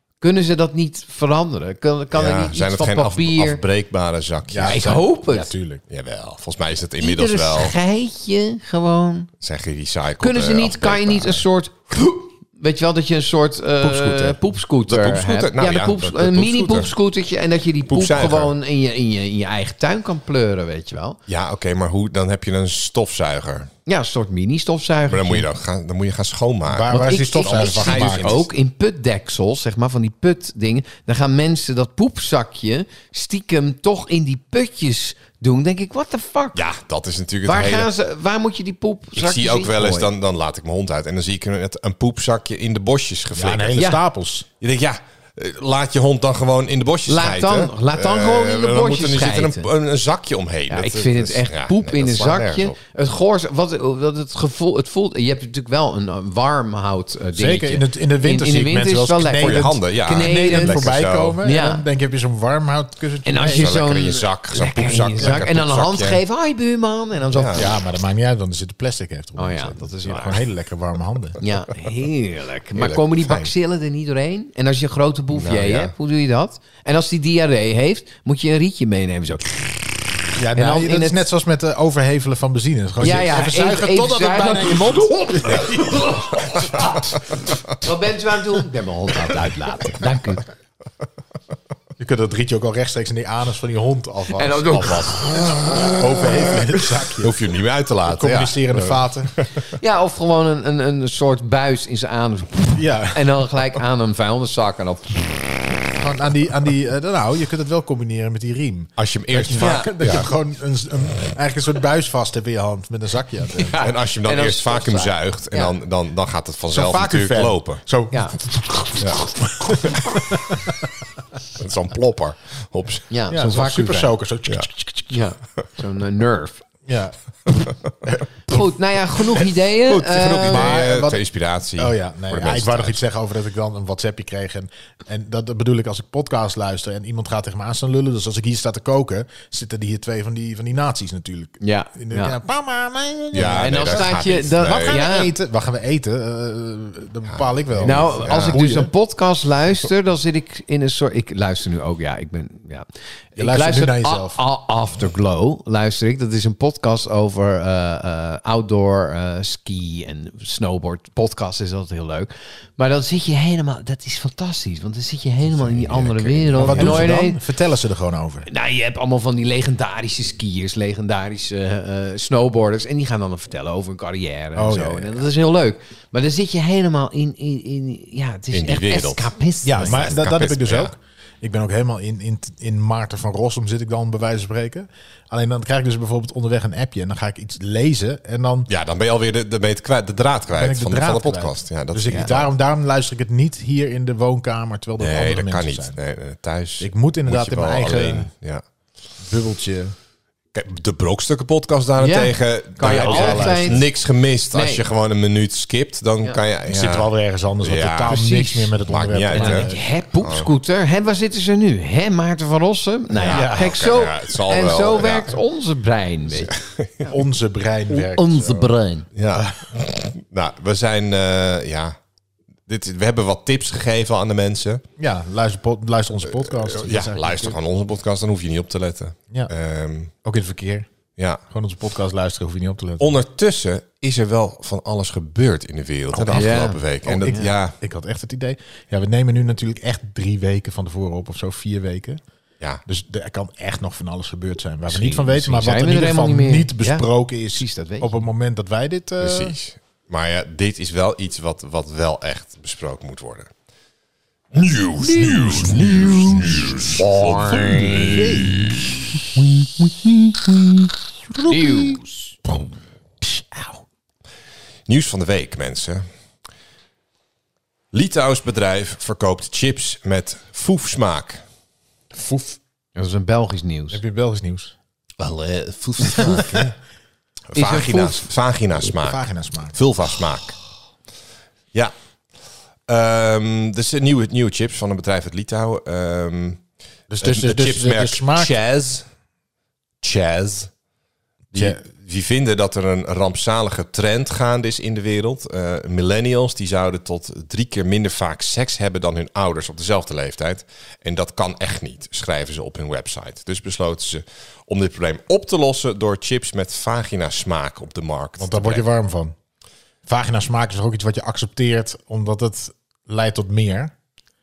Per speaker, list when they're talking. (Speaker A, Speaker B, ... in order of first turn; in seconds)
Speaker A: 0.2-3.6, 4.7-5.5, 7.0-9.3, 10.2-21.2, 23.9-25.5, 26.9-36.6, 37.4-40.1, 43.8-44.0, 47.1-49.7, 50.7-60.8, 61.4-61.8, 63.3-67.7, 69.4-70.4, 71.4-80.0, 80.5-81.2, 83.0-90.5, 94.3-95.5, 99.7-105.6, 109.6-109.9, 113.5-115.8, 118.1-118.4, 123.1-124.1, 125.1-126.7, 128.5-130.8, 141.6-142.4, 143.3-145.4, 147.8-167.4, 168.5-180.1, 202.0-203.8, 204.5-204.8, 208.1-208.8, 209.3-217.1, 217.9-219.1, 236.3-237.5, 244.9-248.1, 256.9-258.5, 261.4-262.4, 273.0-274.0, 277.6-278.3
Speaker B: 2.1-5.0, 5.9-7.8, 9.4-11.4, 13.8-14.3, 14.9-16.9, 17.9-18.6, 21.3-23.7, 25.1-28.5, 36.5-37.9, 39.2-43.9, 44.6-52.8, 59.4-61.4, 63.4-66.2, 67.3-67.7, 72.8-73.5, 75.3-75.9, 95.6-96.4, 97.2-99.7, 109.0-110.3, 113.8-117.8, 119.8-120.0, 121.6-123.1, 129.8-133.0, 143.3-145.0, 147.3-148.6, 165.6-167.1, 178.5-180.9, 188.7-192.5, 195.0-198.6, 200.5-207.1, 207.6-208.2, 208.9-210.5, 213.2-215.4, 216.4-217.1, 219.2-222.0, 222.7-224.8, 226.5-230.1, 231.2-231.4, 233.0-237.8, 249.2-253.5, 254.5-258.9, 264.9-266.1, 267.9-271.4, 275.2-276.7, 277.5-280.6, 282.9-286.6, 287.2-289.1, 290.0-290.7, 291.5-308.9
Speaker C: 4.5-5.8, 26.7-28.4, 43.3-44.5, 57.4-63.8, 67.5-71.4, 80.4-86.0, 92.0-97.3, 98.1-99.3, 102.8-103.4, 106.0-113.8, 116.7-120.7, 123.3-125.2, 126.9-127.2, 128.0-128.7, 130.5-131.2, 131.8-148.9, 153.4-154.4, 166.6-168.5, 174.6-175.3, 179.6-188.7, 190.5-196.0, 196.8-198.3, 199.2-199.9, 202.8-203.9, 206.7-209.8, 213.2-213.9, 217.1-218.7, 219.3-219.8, 225.0-227.6, 230.2-230.9, 231.5-233.2, 236.1-242.2, 242.9-249.6, 255.0-256.8, 258.1-258.9, 261.3-262.0, 272.1-272.6, 273.9-274.8, 276.2-276.6, 278.9-279.8, 287.1-288.5, 291.5-291.8, 308.4-309.4, 310.1-313.9